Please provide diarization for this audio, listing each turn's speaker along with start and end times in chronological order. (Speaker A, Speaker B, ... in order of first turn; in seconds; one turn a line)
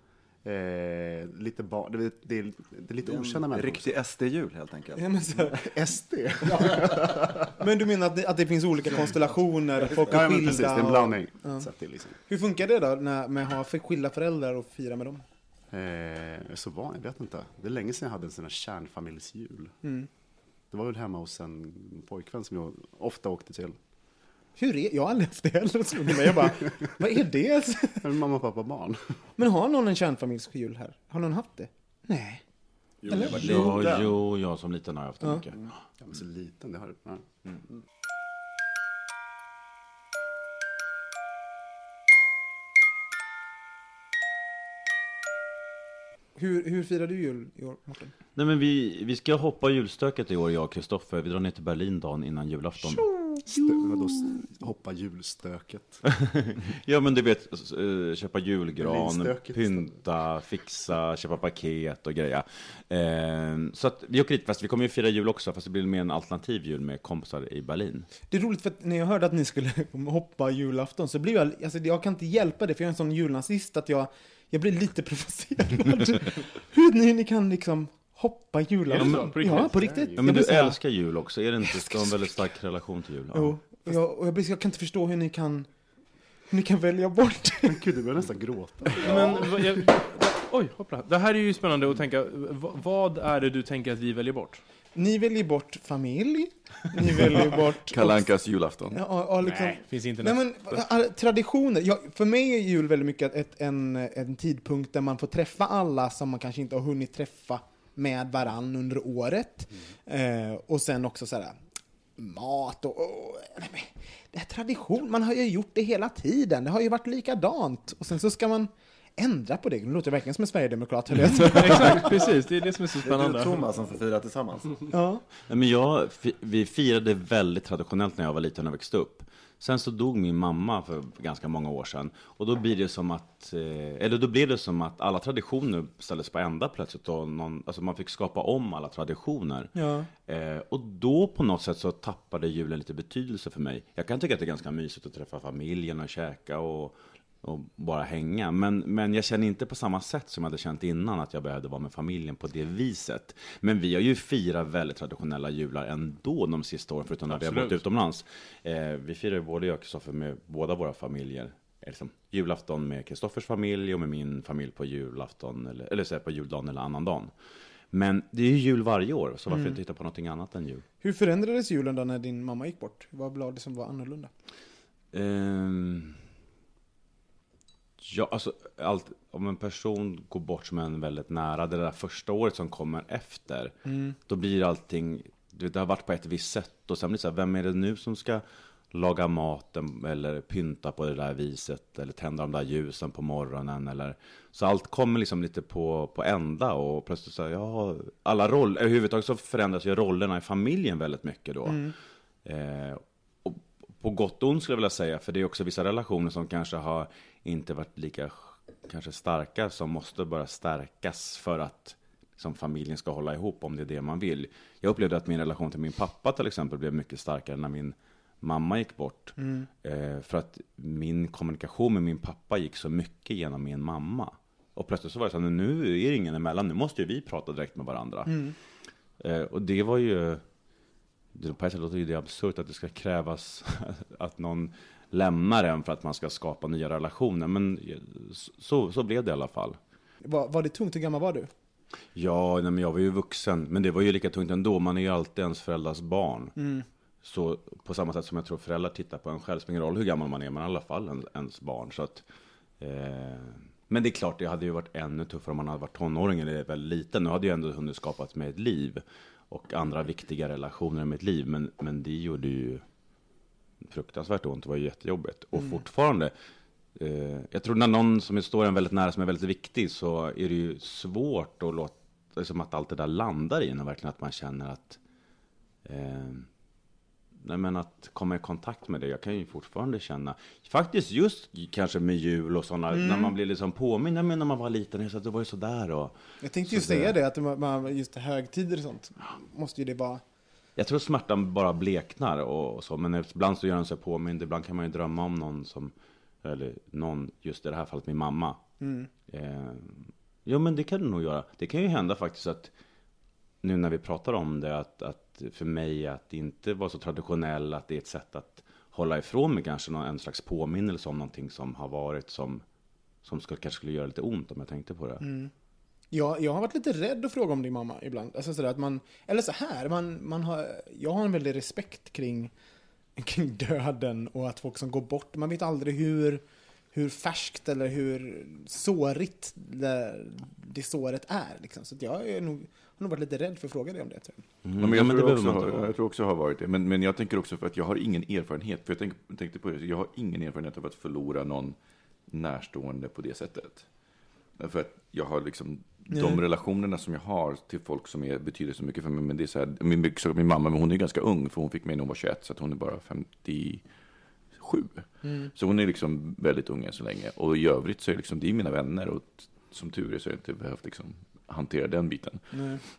Speaker A: 0.4-3.9
Speaker B: 3.0-5.5
Speaker C: 5.0-5.7
Speaker A: 5.5-7.3
Speaker C: 6.5-6.8
Speaker C: 7.5-11.7
Speaker A: 9.8-12.2
Speaker C: 12.3-15.2
Speaker A: 15.7-19.7
Speaker C: 19.8-20.1
Speaker A: 20.7-23.8
Speaker C: 24.6-28.0
Speaker A: 28.0-29.2
Speaker C: 29.4-32.4
Speaker A: 33.0-34.0
Speaker C: 33.1-33.6
Speaker D: 33.2-35.7
Speaker B: 33.5-34.1
Speaker C: 35.2-35.5
Speaker A: 36.0-37.2
Speaker C: 46.4-48.1
Speaker D: 48.4-53.2
Speaker C: 53.0-54.2
Speaker A: 53.4-56.0
Speaker D: 56.0-68.1
Speaker A: 58.7-60.0
Speaker C: 68.3-80.8
Speaker E: 78.9-79.8
Speaker D: 79.0-83.8
Speaker A: 79.1-80.3
Speaker C: 81.6-82.4
Speaker C: 83.3-85.7
Speaker C: 86.5-87.8
Speaker A: 87.7-89.6
Speaker E: 89.0-94.6
Speaker C: 89.0-89.8
Speaker C: 94.9-98.3
Speaker F: 97.9-99.0
Speaker C: 98.9-111.5
Speaker E: 99.4-100.4
Speaker C: 112.2-122.1
Speaker E: 121.5-123.6
Speaker B: 123.0-124.8
Speaker C: 124.9-125.2
Speaker D: 125.5-139.7
Speaker C: 139.7-140.1
Speaker D: 140.2-167.3
Speaker E: 157.3-157.8
Speaker D: 167.9-170.8
Speaker C: 169.5-169.8
Speaker C: 171.0-174.3
Speaker D: 175.1-176.2
Speaker D: 178.0-201.9
Speaker C: 183.8-184.1
Speaker C: 201.7-201.9
Speaker D: 202.4-228.5
Speaker C: 219.4-219.7
Speaker C: 228.3-228.5
Speaker D: 229.2-230.4
Speaker D: 231.3-239.8
Speaker C: 240.2-241.5
Speaker D: 242.1-246.6
Speaker C: 246.6-246.8
Speaker D: 247.2-252.2
Speaker D: 252.8-262.8
Speaker D: 263.9-266.3
Speaker D: 266.9-275.0
Speaker D: 275.8-276.5
Speaker D: 277.4-286.1
Speaker C: 282.9-283.3
Speaker C: 286.4-290.2
Speaker D: 286.6-287.1
Speaker D: 290.8-295.9
Speaker D: 296.4-298.6
Speaker C: 298.8-299.1
Speaker D: 299.3-302.7
Speaker D: 303.6-312.6
Speaker D: 313.2-315.2
Speaker C: 315.2-315.5
Speaker C: 316.1-322.5
Speaker C: 323.1-326.4
Speaker C: 326.9-334.4
Speaker D: 334.6-335.9
Speaker F: 334.8-341.8
Speaker F: 342.3-343.9
Speaker F: 344.6-353.8
Speaker C: 346.1-346.4
Speaker F: 354.5-362.7
Speaker C: 355.2-355.5
Speaker C: 362.5-362.8